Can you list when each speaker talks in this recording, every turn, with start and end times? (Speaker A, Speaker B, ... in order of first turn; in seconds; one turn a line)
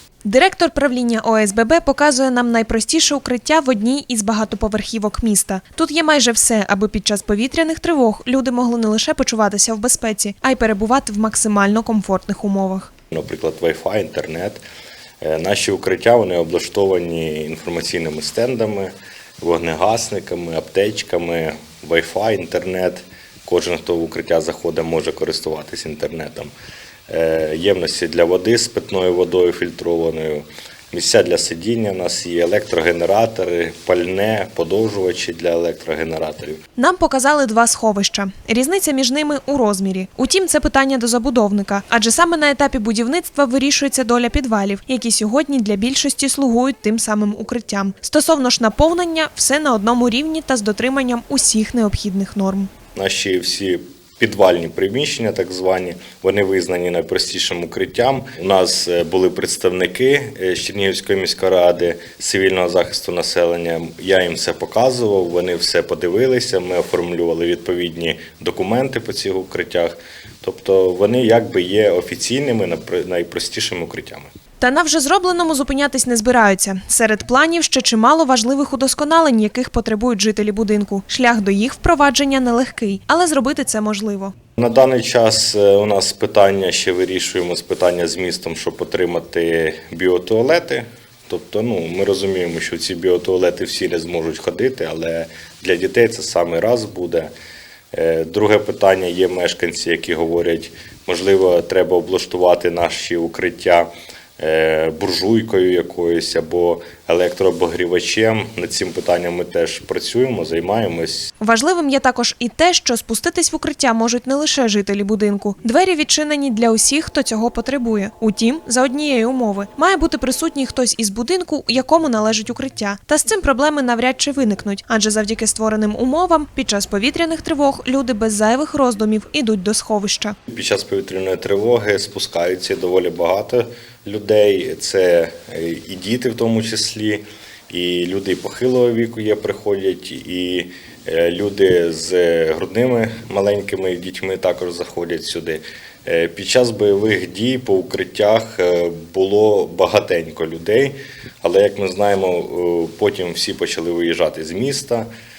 Speaker A: 0.2-12.9
Speaker B: 13.1-14.6
Speaker B: 15.2-26.5
Speaker B: 27.1-36.6
Speaker A: 36.8-52.7
Speaker B: 52.9-74.3
Speaker A: 74.6-84.3
Speaker B: 84.6-97.3
Speaker B: 97.9-111.3
Speaker A: 111.4-130.3
Speaker B: 130.5-155.1